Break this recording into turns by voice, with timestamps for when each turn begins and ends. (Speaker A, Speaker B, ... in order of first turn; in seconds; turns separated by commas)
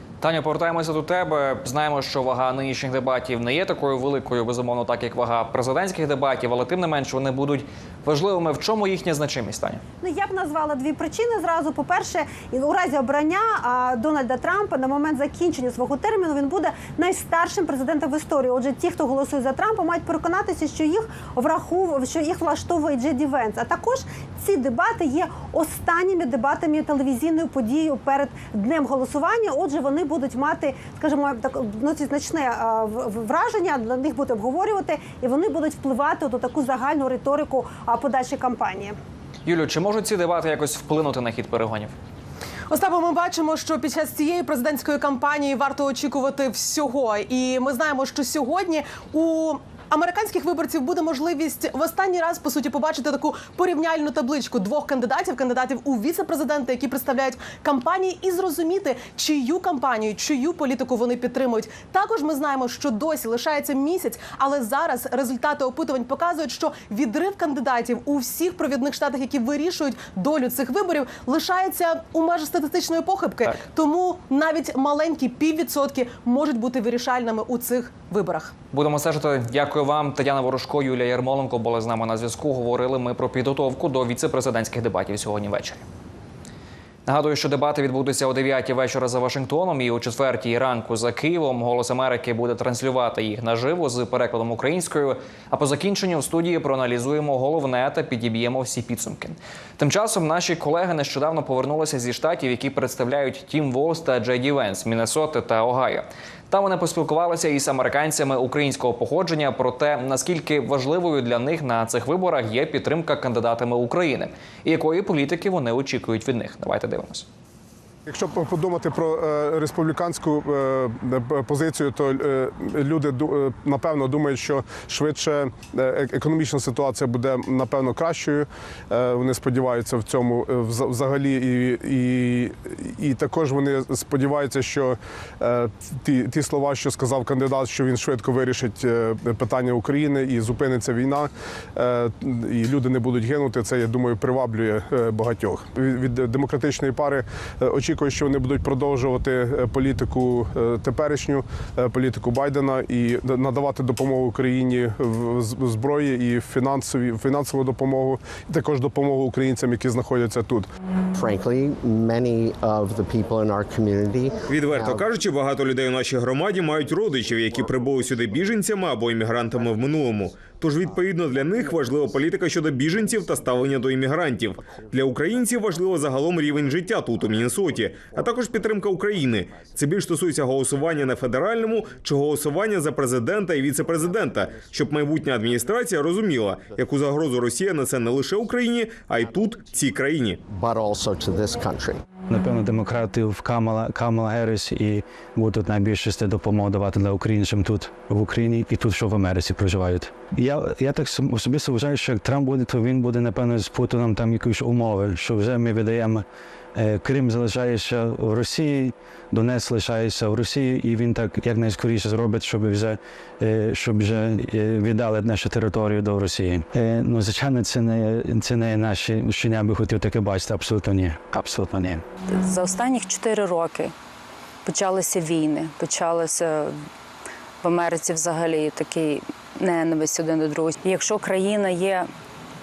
Speaker A: 0.2-9.8, Speaker B: 10.0-39.0, Speaker A: 39.5-41.9, Speaker C: 42.7-78.5, Speaker A: 78.7-85.9, Speaker A: 87.0-117.3, Speaker D: 118.1-160.7, Speaker E: 161.1-165.1, Speaker F: 164.5-190.4, Speaker E: 190.5-192.0, Speaker G: 192.3-222.0, Speaker H: 222.3-223.9, Speaker H: 224.7-226.8, Speaker H: 227.6-232.1